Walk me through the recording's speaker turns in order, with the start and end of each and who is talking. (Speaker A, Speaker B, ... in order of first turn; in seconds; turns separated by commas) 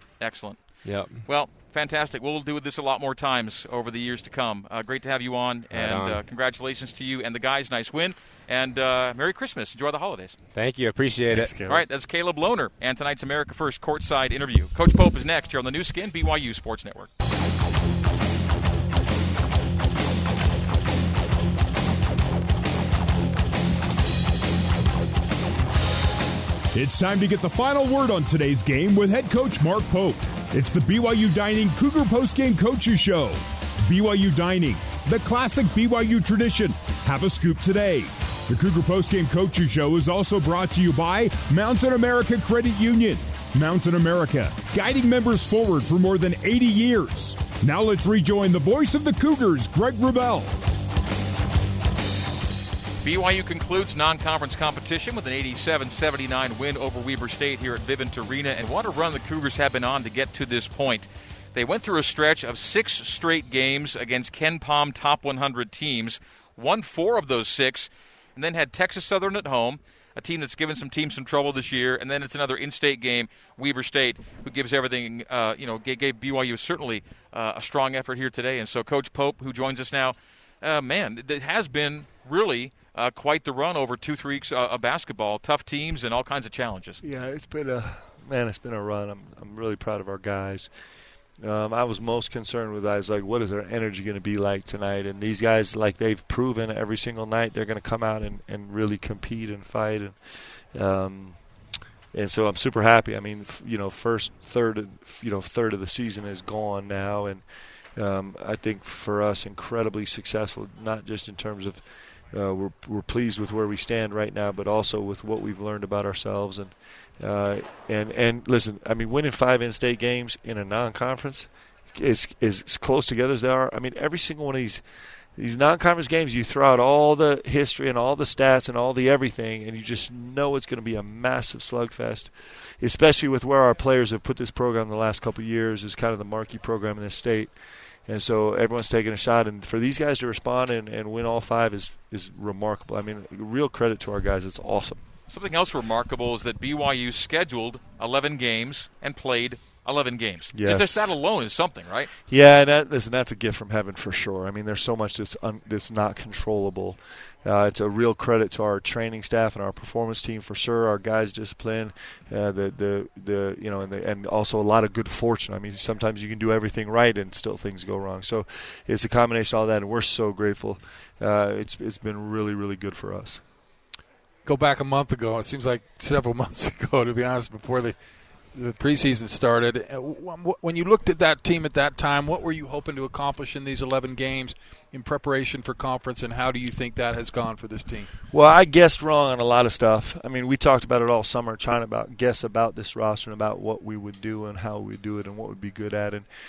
Speaker A: 0.2-10.4, Speaker B: 0.8-1.2, Speaker B: 5.7-6.2, Speaker B: 10.5-11.8, Speaker C: 11.3-11.8, Speaker A: 11.7-17.1, Speaker D: 26.7-50.6, Speaker A: 53.0-87.0, Speaker C: 87.0-90.7, Speaker C: 91.4-101.4, Speaker C: 102.1-107.4, Speaker C: 108.0-124.8, Speaker C: 125.4-137.5, Speaker C: 138.1-145.0, Speaker A: 145.3-152.1, Speaker C: 150.5-151.1, Speaker C: 152.3-173.4, Speaker E: 174.4-178.0, Speaker E: 178.5-188.1, Speaker C: 188.3-196.3